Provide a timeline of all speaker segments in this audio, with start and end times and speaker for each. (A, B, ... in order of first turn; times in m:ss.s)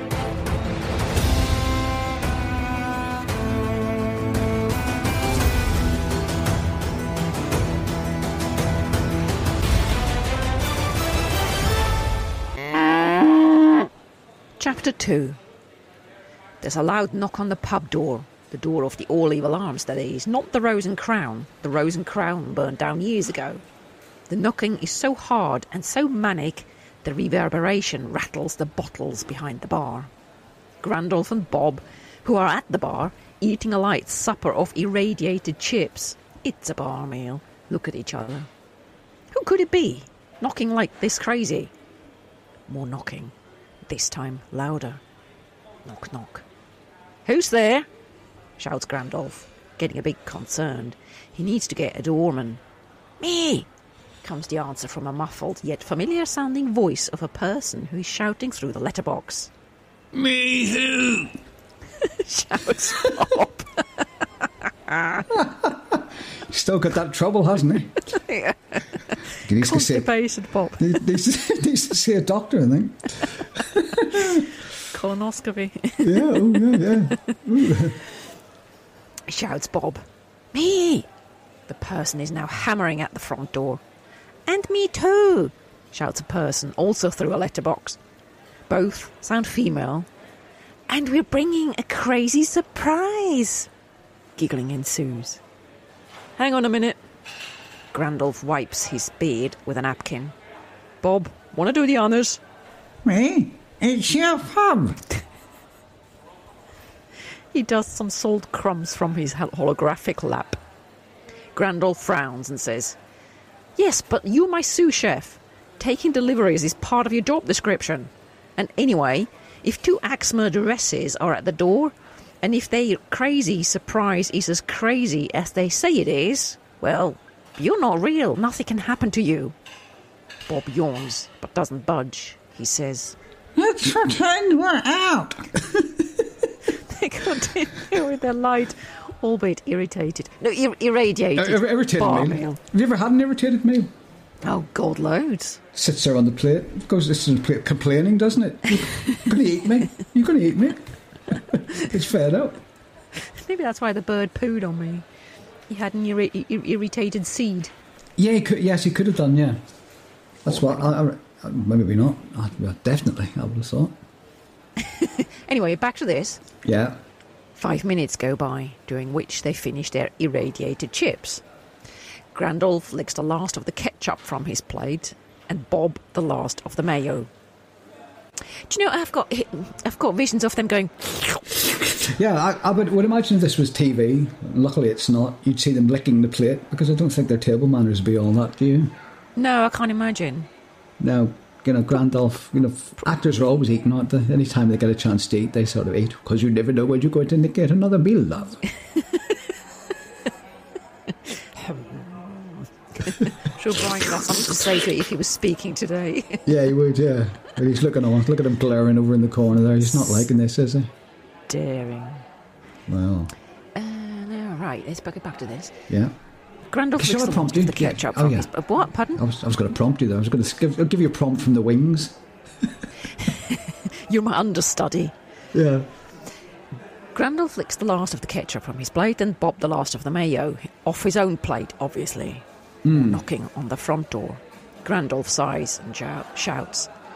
0:14.6-0:15.4 A
0:16.6-0:23.6 A
0:24.3-0:30.1 A
0:30.8-0:38.5 A
0:39.3-0:41.7 A
0:42.7-0:43.3 A
0:43.9-0:45.0 A
0:45.8-0:46.4 A
0:47.2-0:47.9 A
0:48.6-0:52.6 A
0:53.2-0:53.7 A
0:54.2-0:59.5 A
1:00.1-1:01.3 B
1:02.0-1:03.8 A
1:04.8-1:05.3 A
1:05.3-1:08.0 C
1:08.1-1:08.9 A
1:09.4-1:10.1 C
1:09.5-1:11.0 A
1:10.8-1:14.5 C
1:14.2-1:17.0 A
1:16.0-1:18.0 C
1:19.3-1:21.1 A
1:21.7-1:23.8 A
1:24.4-1:28.0 A
1:28.7-1:30.1 A
1:30.9-1:33.7 A
1:34.4-1:35.4 A
1:36.4-1:37.0 A
1:37.9-1:40.3 A
1:41.0-1:42.4 A
1:43.0-1:45.0 B
1:47.5-1:50.6 A
1:51.5-1:53.0 A
1:53.8-2:09.5 A
2:10.5-2:13.2 A
2:13.6-2:15.7 B
2:16.8-2:22.6 A
2:21.3-2:23.9 C
2:24.4-2:25.6 A
2:25.7-2:32.6 C
2:33.3-2:35.1 A
2:35.7-2:37.7 A
2:38.2-2:39.6 C
2:40.4-2:44.0 C
2:44.8-2:46.4 A
2:46.6-2:47.0 C
2:47.6-2:51.4 A
2:52.3-2:57.3 A
2:58.7-3:01.7 A
3:01.7-3:08.9 C
3:09.4-3:10.5 A
3:11.0-3:18.6 C
3:21.6-3:26.5 A
3:26.4-3:30.9 C
3:31.5-3:32.2 A
3:32.9-3:33.3 C
3:33.7-3:35.8 A
3:35.9-3:36.1 C
3:36.7-3:39.2 A
3:37.0-3:38.5 C
3:39.1-3:42.2 C
3:43.2-3:45.1 A
3:45.5-3:45.8 C
3:47.1-3:56.9 A
3:52.8-3:53.2 C